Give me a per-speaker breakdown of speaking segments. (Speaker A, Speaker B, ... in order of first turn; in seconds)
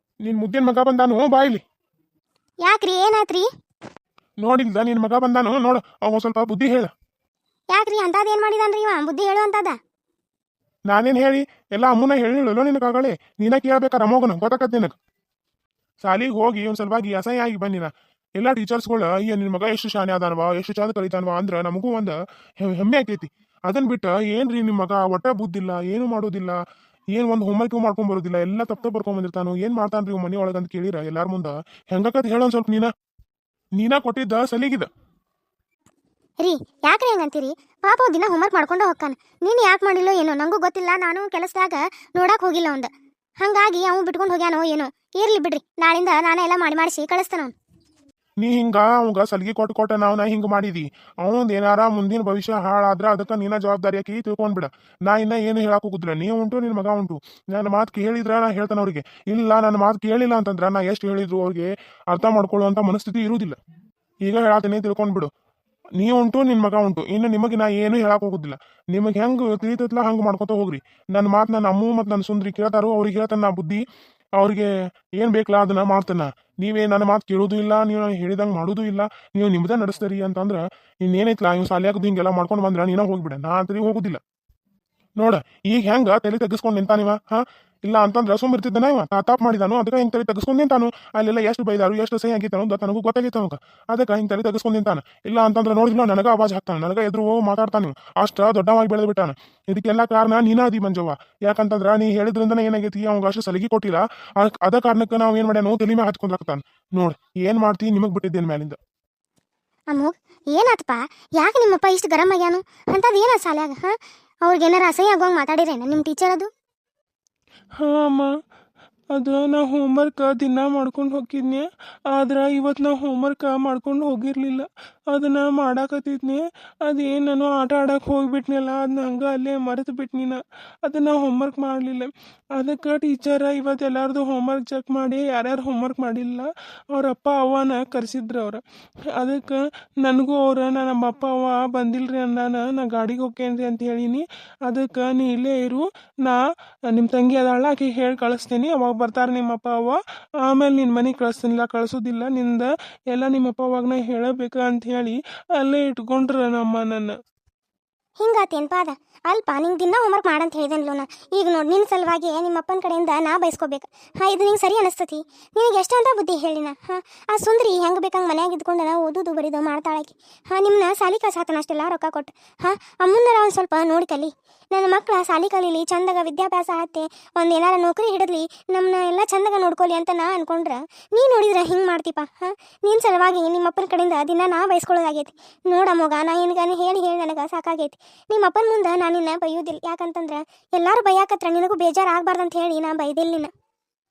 Speaker A: 0.2-1.6, 4.4-6.9, 10.9-14.9, 16.0-26.6, 27.1-32.9, 33.8-34.9, 48.4-63.6, 64.3-65.3, 66.0-73.8, 74.4-84.2, 85.2-108.8
Speaker B: 2.6-3.5, 7.7-9.8, 36.4-47.5, 109.9-113.9, 114.5-116.5, 158.2-193.5
Speaker C: 117.8-118.3, 119.1-138.6, 139.2-157.1